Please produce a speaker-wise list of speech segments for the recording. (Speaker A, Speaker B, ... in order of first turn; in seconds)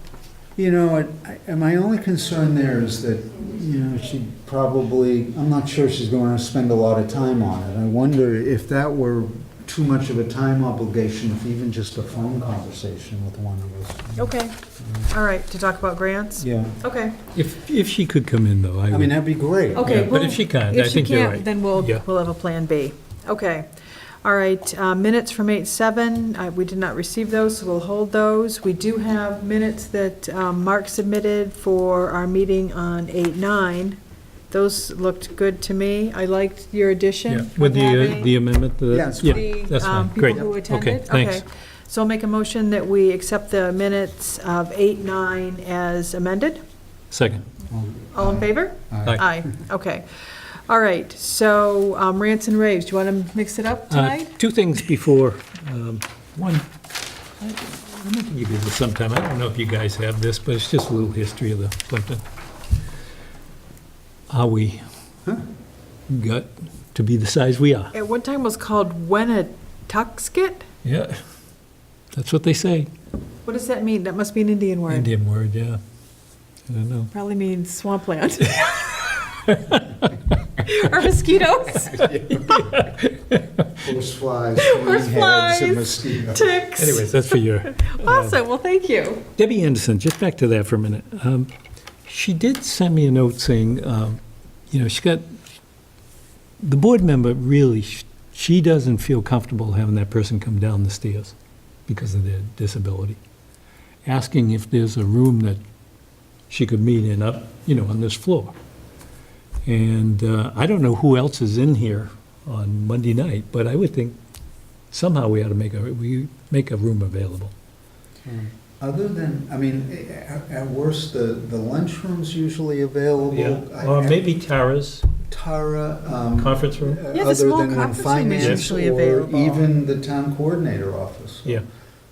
Speaker A: 0.6-15.1, 16.4-16.8, 18.9-20.0, 38.9-39.4, 47.7-49.5, 83.7-86.6, 118.2-124.2, 125.3-131.6
Speaker B: 14.2-14.6, 15.1-17.2, 19.7-23.7, 24.2-34.0, 34.5-38.4, 39.1-46.6, 48.1-54.3, 67.9-70.7, 73.4-75.1, 77.1-79.3, 80.6-82.7, 84.6-89.2, 127.1-129.7
Speaker C: 17.3-19.1, 19.8-22.0, 37.3-41.4, 47.1-47.5, 53.9-56.6, 57.4-62.2, 64.3-64.8, 66.1-67.9, 70.8-71.2, 72.1-72.9, 74.9-75.8, 76.7-77.1, 78.4-80.3, 81.9-83.7, 86.8-88.4, 89.4-91.5, 92.0-95.4, 96.6-101.3, 101.9-103.2, 104.0-105.6, 106.5-108.5, 109.7-114.2, 114.9-117.5, 123.2-125.1, 126.3-127.0, 128.4-128.7